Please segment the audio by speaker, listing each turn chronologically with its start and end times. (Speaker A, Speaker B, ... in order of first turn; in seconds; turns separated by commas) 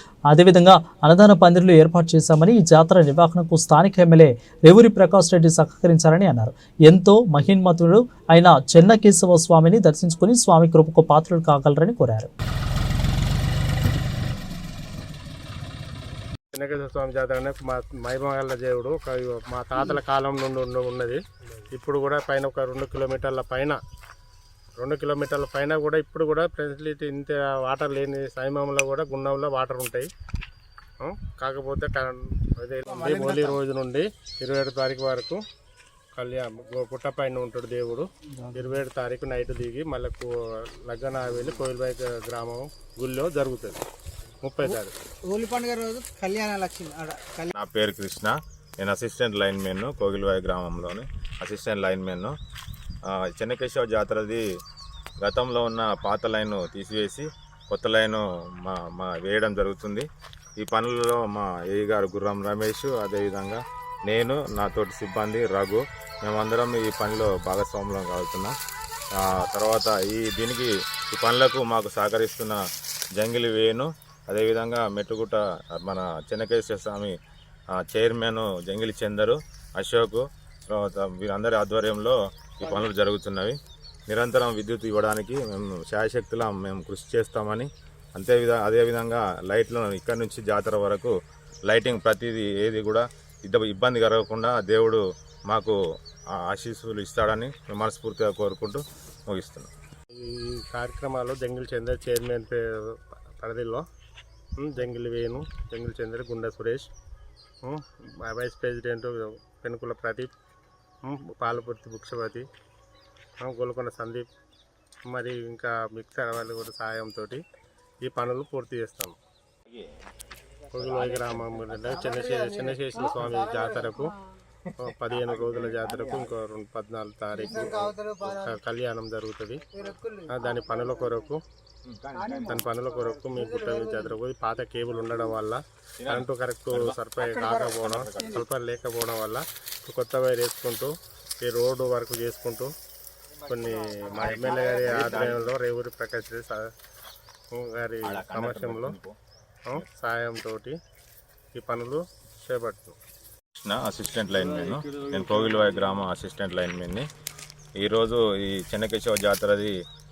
Speaker A: 0.3-12.3, Speaker B: 16.5-21.2, Speaker B: 21.7-23.8, Speaker B: 24.8-30.1, Speaker B: 31.0-35.4, Speaker C: 32.9-33.6, Speaker B: 36.1-40.3, Speaker C: 38.4-38.7, Speaker B: 40.9-43.8, Speaker B: 44.4-44.9, Speaker C: 44.6-47.5, Speaker D: 47.5-52.4, Speaker D: 53.1-54.4, Speaker D: 55.2-60.0, Speaker D: 60.6-68.5, Speaker D: 69.2-72.6, Speaker D: 73.2-77.2, Speaker D: 77.8-83.5, Speaker D: 84.1-91.1, Speaker D: 91.7-95.8, Speaker D: 96.4-99.7, Speaker B: 100.2-103.8, Speaker B: 104.6-106.9, Speaker B: 107.7-110.3, Speaker B: 111.1-112.4, Speaker B: 113.4-114.3, Speaker B: 115.1-117.4, Speaker B: 118.1-119.2, Speaker B: 120.7-124.1, Speaker D: 120.8-121.8, Speaker C: 121.9-124.1, Speaker D: 124.7-126.3, Speaker B: 124.8-129.7, Speaker C: 127.4-128.6, Speaker D: 127.5-127.9, Speaker C: 129.7-131.0, Speaker B: 130.3-131.4, Speaker D: 131.9-132.7, Speaker C: 132.1-134.2, Speaker B: 132.4-142.7, Speaker D: 136.0-137.0, Speaker C: 137.2-138.2, Speaker D: 137.8-138.4, Speaker B: 143.5-146.7, Speaker D: 144.2-145.5, Speaker B: 147.5-149.0, Speaker D: 148.0-149.1, Speaker B: 149.7-150.7, Speaker B: 151.6-153.0, Speaker D: 153.6-157.1, Speaker D: 157.8-159.7